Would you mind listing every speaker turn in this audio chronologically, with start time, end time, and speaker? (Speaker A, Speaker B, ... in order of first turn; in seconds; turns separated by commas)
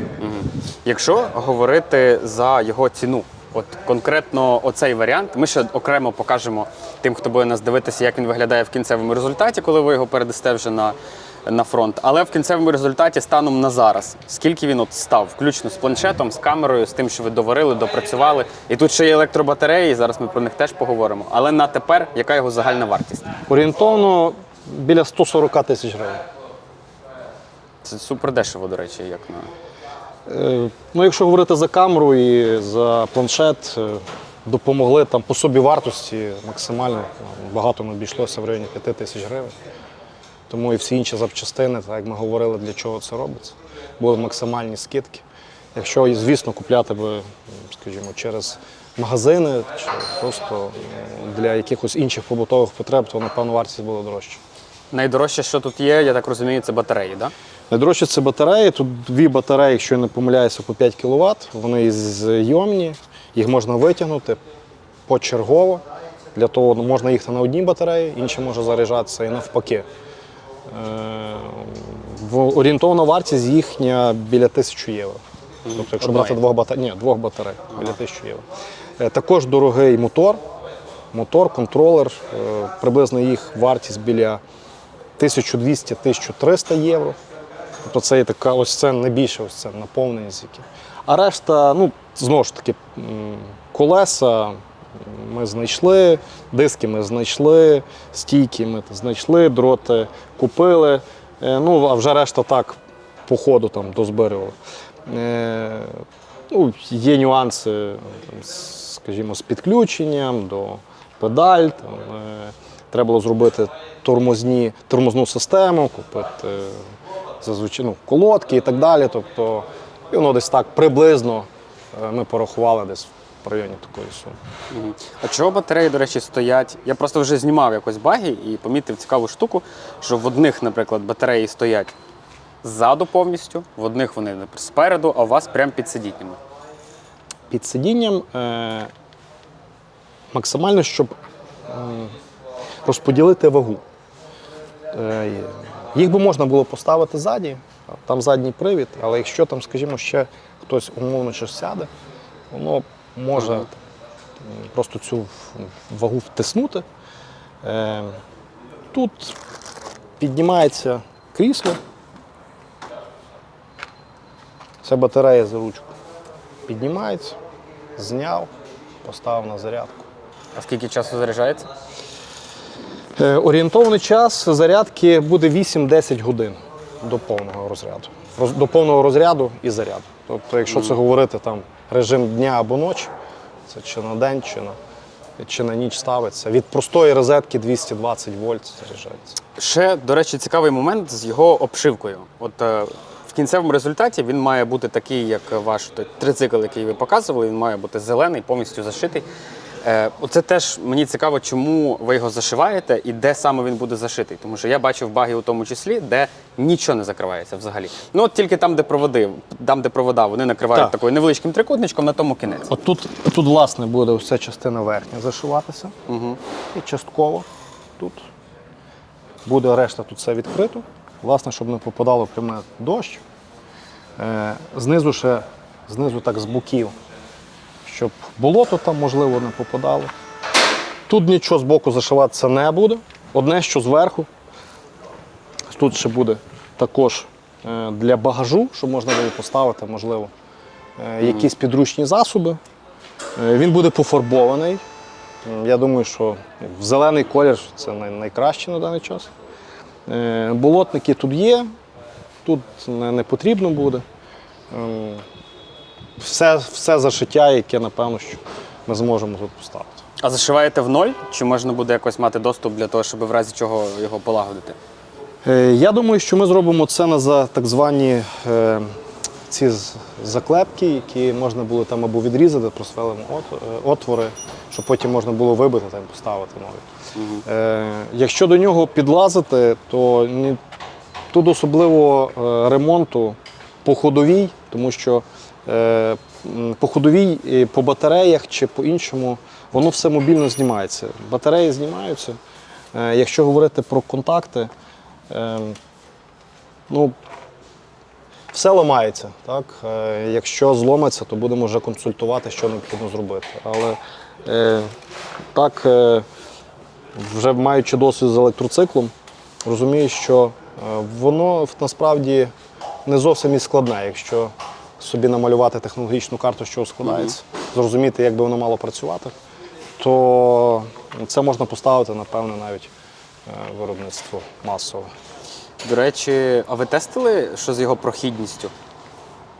Speaker A: 0.2-23.3, Speaker B: 23.5-26.2, Speaker A: 27.8-29.5, Speaker B: 30.3-39.5, Speaker B: 40.5-45.2, Speaker B: 45.7-54.4, Speaker A: 54.9-57.3, Speaker B: 57.7-64.4, Speaker B: 65.1-65.8, Speaker B: 66.3-69.8, Speaker B: 70.7-75.2, Speaker A: 75.7-76.4, Speaker B: 75.7-78.4, Speaker B: 79.0-80.4, Speaker B: 81.1-84.4, Speaker B: 85.2-87.2, Speaker B: 87.8-104.5, Speaker B: 105.0-116.8, Speaker B: 117.4-124.3, Speaker A: 124.7-131.9, Speaker A: 132.6-136.4, Speaker B: 137.5-138.9, Speaker B: 140.3-141.1, Speaker B: 141.7-142.1, Speaker B: 142.8-143.8, Speaker B: 144.9-151.9, Speaker B: 152.5-153.8, Speaker B: 154.4-156.8, Speaker B: 157.6-158.2, Speaker B: 158.9-159.3, Speaker B: 160.2-161.8, Speaker B: 164.8-165.9, Speaker B: 166.7-167.4, Speaker B: 168.0-168.5, Speaker B: 169.0-170.1, Speaker A: 170.5-171.7, Speaker B: 173.2-183.1, Speaker A: 180.7-180.9, Speaker B: 183.7-184.8, Speaker B: 185.4-189.3, Speaker A: 189.6-199.2, Speaker A: 199.8-212.7, Speaker B: 212.7-215.9, Speaker A: 216.1-216.4, Speaker B: 216.7-217.4, Speaker B: 219.4-223.2, Speaker B: 224.2-226.9, Speaker B: 227.8-230.1, Speaker B: 231.1-234.3, Speaker B: 235.7-240.3, Speaker B: 241.0-242.6, Speaker B: 243.3-244.8, Speaker B: 245.4-249.3, Speaker B: 250.1-251.7, Speaker B: 252.4-254.0, Speaker B: 254.7-255.2, Speaker B: 256.2-260.0, Speaker A: 260.2-264.8, Speaker B: 265.4-268.9, Speaker B: 269.5-276.8, Speaker A: 277.1-277.4, Speaker B: 277.4-280.6, Speaker B: 281.3-292.4, Speaker B: 292.9-294.7, Speaker B: 295.3-295.8, Speaker B: 296.9-297.1, Speaker B: 298.5-304.9, Speaker B: 305.5-306.2, Speaker B: 307.1-309.1, Speaker B: 309.6-312.5, Speaker B: 313.1-319.3, Speaker A: 317.0-317.3, Speaker B: 320.0-322.9, Speaker B: 323.5-325.1, Speaker A: 325.8-328.7